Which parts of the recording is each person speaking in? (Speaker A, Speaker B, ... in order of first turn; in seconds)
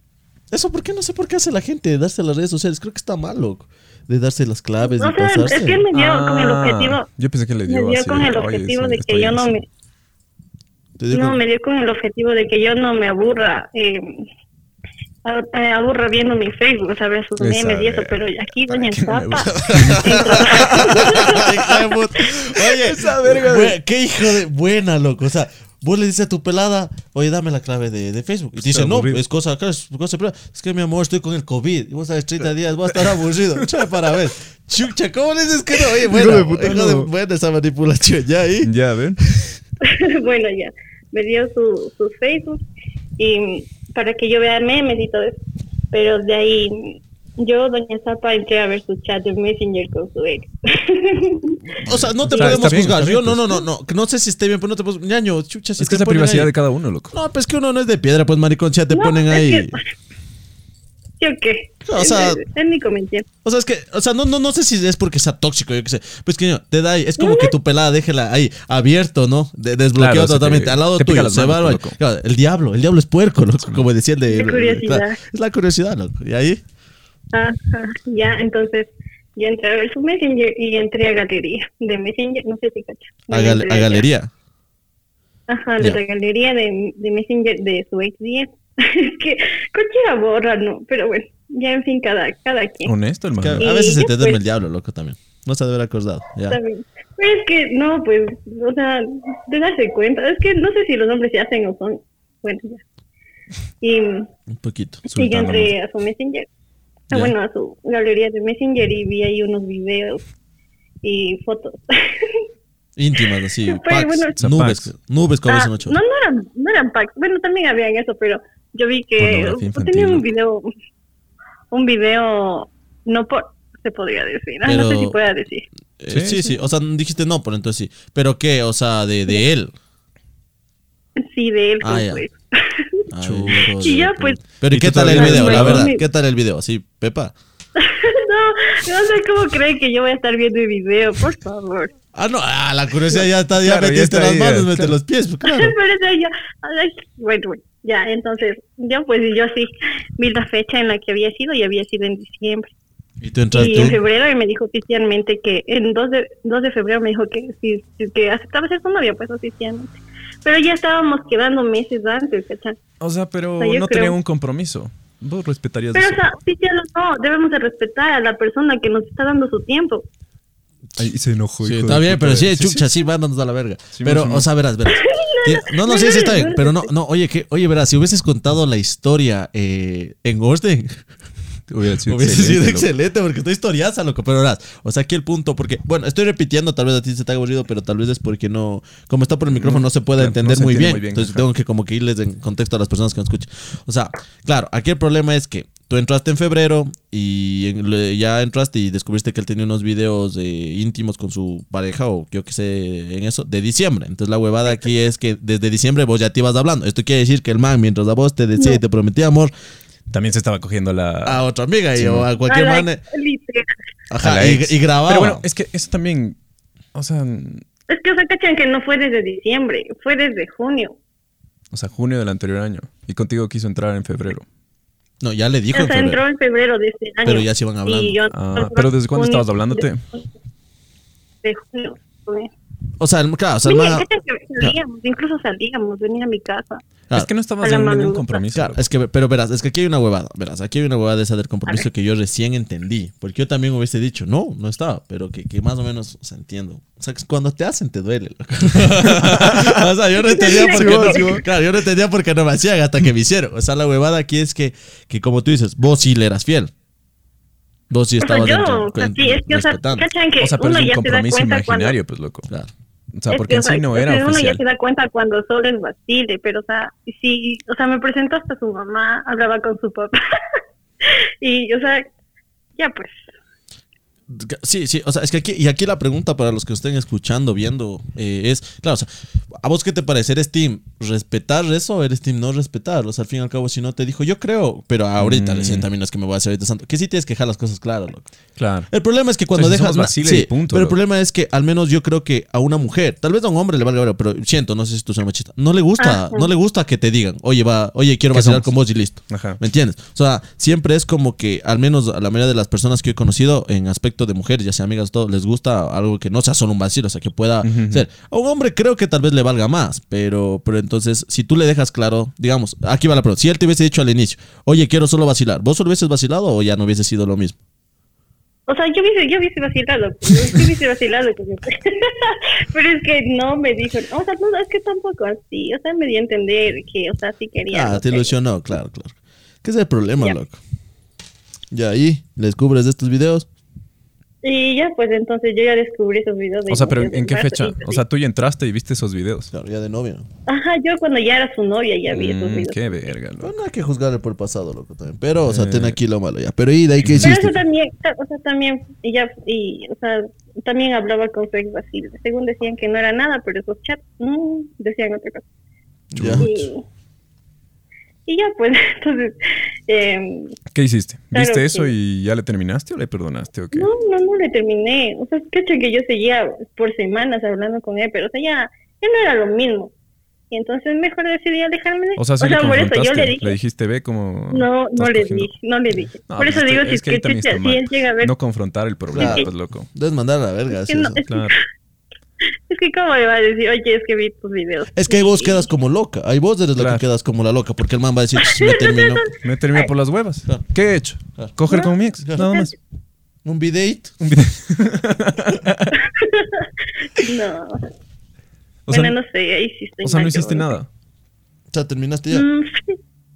Speaker A: 0.5-5.8, 11.0-11.4, 19.5-39.6, 51.7-56.5, 57.1-59.8, 61.9-62.4, 63.4-76.6, 83.3-84.3, 93.4-96.6, 104.5-105.0, 113.0-116.0, 124.6-125.2, 126.0-129.7, 131.8-132.2, 133.1-137.3, 142.1-145.8, 153.2-154.0, 171.6-181.0, 182.1-209.5, 211.2-213.0, 214.1-215.4, 225.2-226.2, 227.2-228.2, 233.0-234.1, 238.5-256.7, 257.9-260.1, 274.3-288.3, 288.9-317.6, 327.7-330.6, 331.7-333.5, 339.5-340.3, 343.4-347.6, 356.1-356.5, 379.1-381.2, 384.9-389.3, 392.2-392.5, 393.4-394.1, 401.7-402.5
Speaker B: 4.8-7.1, 7.7-9.7, 11.1-14.3, 15.2-21.5, 39.8-42.6, 43.2-52.8, 58.9-59.8, 61.2-63.3, 67.2-67.5, 74.3-75.2, 77.3-84.1, 85.5-92.9, 93.6-94.4, 96.5-102.8, 103.8-104.3, 105.2-106.5, 107.1-110.2, 111.0-112.5, 113.7-114.4, 115.5-120.7, 121.7-125.7, 131.2-134.4, 135.2-136.0, 137.8-141.9, 145.4-152.7, 153.5-162.8, 163.6-164.2, 165.9-170.1, 174.9-176.9, 212.5-213.7, 217.9-221.0, 225.7-230.2, 231.4-232.5, 233.7-236.8, 237.6-238.4, 250.2-251.4, 258.2-262.0, 263.3-272.1, 272.8-273.3, 296.0-296.5, 318.7-328.3, 334.4-338.0, 340.5-343.1, 347.2-355.4, 356.4-356.9, 358.3-359.4, 359.9-360.6, 361.3-361.9, 363.7-369.9, 370.5-373.6, 374.5-378.3, 379.2-379.5, 380.7-381.6, 382.7-385.7, 388.4-389.9, 391.7-392.7, 396.0-397.9, 398.9-400.7, 402.3-403.0
Speaker C: 5.9-9.5, 17.4-18.2, 18.8-23.8, 28.6-29.2, 36.1-37.1, 38.6-39.2, 51.9-53.6, 55.8-57.1, 70.0-72.0, 73.6-73.9, 92.8-93.7, 105.1-105.8, 114.4-114.9, 119.2-120.2, 126.1-126.5, 134.7-135.9, 143.6-144.9, 163.0-166.3, 171.0-172.8, 173.9-174.5, 181.7-182.9, 189.5-191.5, 210.1-211.4, 212.0-212.3, 214.2-216.4, 216.9-217.6, 221.7-224.5, 228.3-230.1, 237.1-238.8, 248.9-249.8, 250.4-251.4, 260.4-262.5, 263.1-264.6, 285.2-285.9, 288.6-288.9, 289.5-291.0, 298.3-298.8, 299.3-299.6, 307.6-308.1, 336.7-339.5, 342.1-343.5, 345.5-346.0, 347.0-347.3, 356.1-356.7, 360.7-363.9, 372.2-375.5, 376.3-379.9, 381.3-381.5, 386.8-387.1, 389.4-392.7, 394.2-396.1, 398.9-399.2, 400.0-400.9